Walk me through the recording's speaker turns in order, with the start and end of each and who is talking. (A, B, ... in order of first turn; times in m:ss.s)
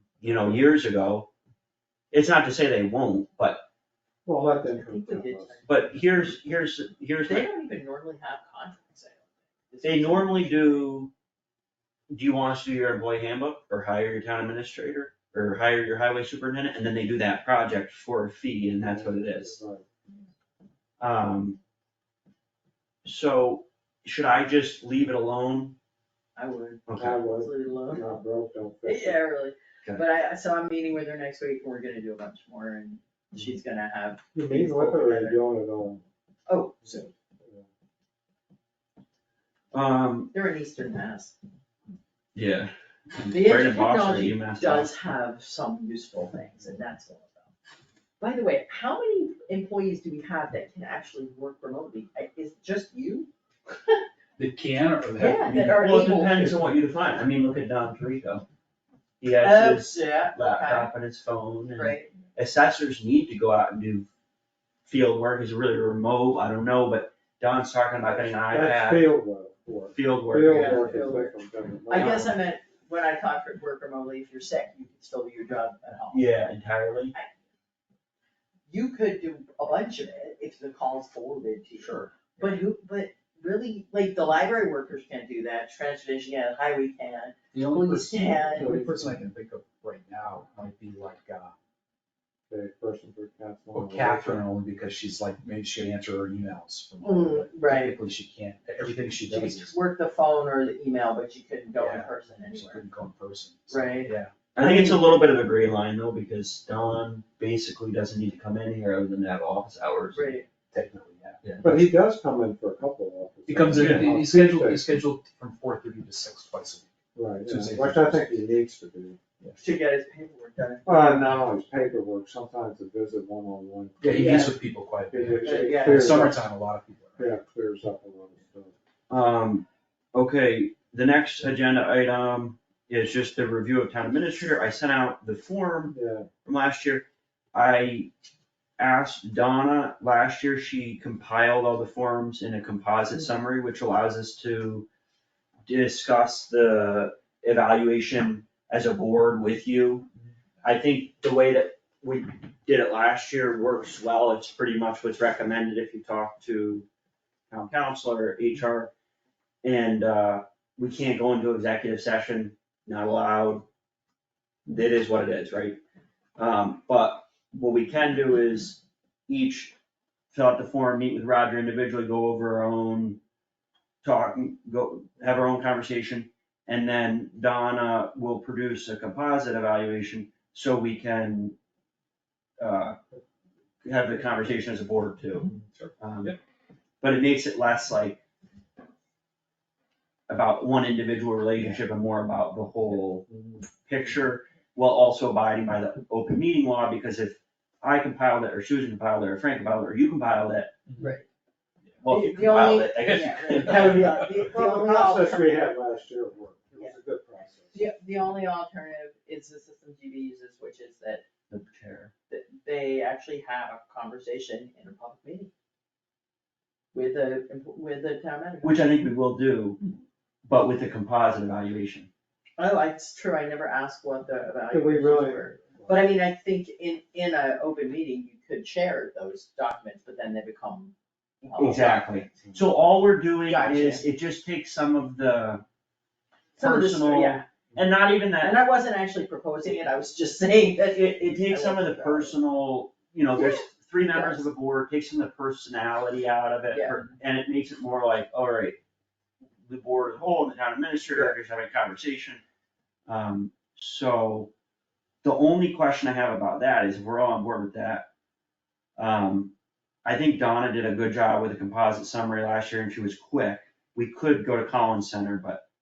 0:00.2-0:01.3 A
0:00.2-0:00.6 B
0:02.1-0:03.6 A
0:04.2-0:05.7 B
0:04.4-0:05.7 C
0:05.7-0:07.5 A
0:07.3-0:10.9 C
0:09.8-0:11.1 A
0:12.1-0:19.6 A
0:18.8-0:19.8 B
0:21.0-0:21.6 A
0:23.0-0:25.8 A
0:26.4-0:28.2 C
0:26.8-0:27.2 A
0:27.0-0:29.2 B
0:28.8-0:35.4 C
0:34.3-0:36.0 B
0:36.5-0:37.1 C
0:36.9-0:37.6 B
0:39.7-0:40.3 A
0:40.3-0:41.3 C
0:42.3-0:44.9 A
0:43.3-0:47.5 C
0:48.2-0:53.3 C
0:54.4-0:55.8 D
0:55.2-0:56.6 C
0:55.8-0:58.4 A
0:59.2-1:04.1 A
0:59.4-1:00.9 C
1:01.8-1:02.1 C
1:04.8-1:09.1 A
1:08.2-1:12.3 B
1:09.9-1:11.2 A
1:10.4-1:11.3 C
1:11.9-1:16.2 C
1:11.9-1:12.3 A
1:16.1-1:17.1 A
1:18.7-1:28.8 C
1:21.8-1:22.4 D
1:27.5-1:31.5 D
1:28.6-1:29.2 B
1:32.5-1:34.4 B
1:33.7-1:39.7 D
1:37.0-1:38.0 C
1:39.2-1:42.8 C
1:41.8-1:44.3 D
1:43.7-1:45.3 C
1:44.5-1:50.4 A
1:50.1-1:50.5 C
1:50.7-1:51.9 D
1:51.6-1:54.9 B
1:53.5-1:56.9 D
1:53.7-1:54.2 A
1:57.1-1:59.2 B
1:57.4-1:58.3 D
1:59.6-2:01.4 C
2:00.8-2:04.5 B
2:04.0-2:07.3 D
2:04.1-2:04.5 C
2:05.1-2:06.4 B
2:05.4-2:06.3 C
2:07.2-2:08.7 B
2:09.1-2:18.1 A
2:15.9-2:16.3 B
2:18.8-2:24.9 A
2:25.6-2:30.1 A
2:30.6-2:36.8 A
2:37.5-2:38.9 A
2:39.6-2:43.6 A
2:44.6-2:45.8 A
2:46.4-2:49.7 A
2:50.3-2:53.2 A
2:54.0-3:01.6 A
3:02.6-3:03.0 A
3:03.8-3:06.4 A
3:05.5-3:06.4 D
3:07.0-3:08.2 A
3:10.3-3:13.2 A
3:13.3-3:13.6 B
3:13.8-3:20.7 A
3:20.9-3:21.2 D
3:21.0-3:21.2 C
3:22.0-3:24.1 A
3:22.1-3:25.7 C
3:23.0-3:24.5 D
3:23.7-3:27.8 B
3:27.7-3:31.2 C
3:31.5-3:32.1 A
3:32.3-3:35.5 C
3:36.9-3:39.0 C
3:38.6-3:39.8 A
3:40.4-3:42.1 A
3:42.6-3:52.3 C
3:44.7-3:45.9 B
3:51.6-3:55.6 A
3:53.4-3:54.0 C
3:56.6-3:57.4 C
3:56.6-3:58.6 A
3:58.4-4:02.4 C
4:00.9-4:08.8 A
4:03.3-4:04.5 C
4:06.7-4:07.0 C
4:09.6-4:12.4 A
4:13.1-4:14.5 A
4:15.2-4:18.1 A
4:19.0-4:19.5 A
4:20.0-4:25.6 A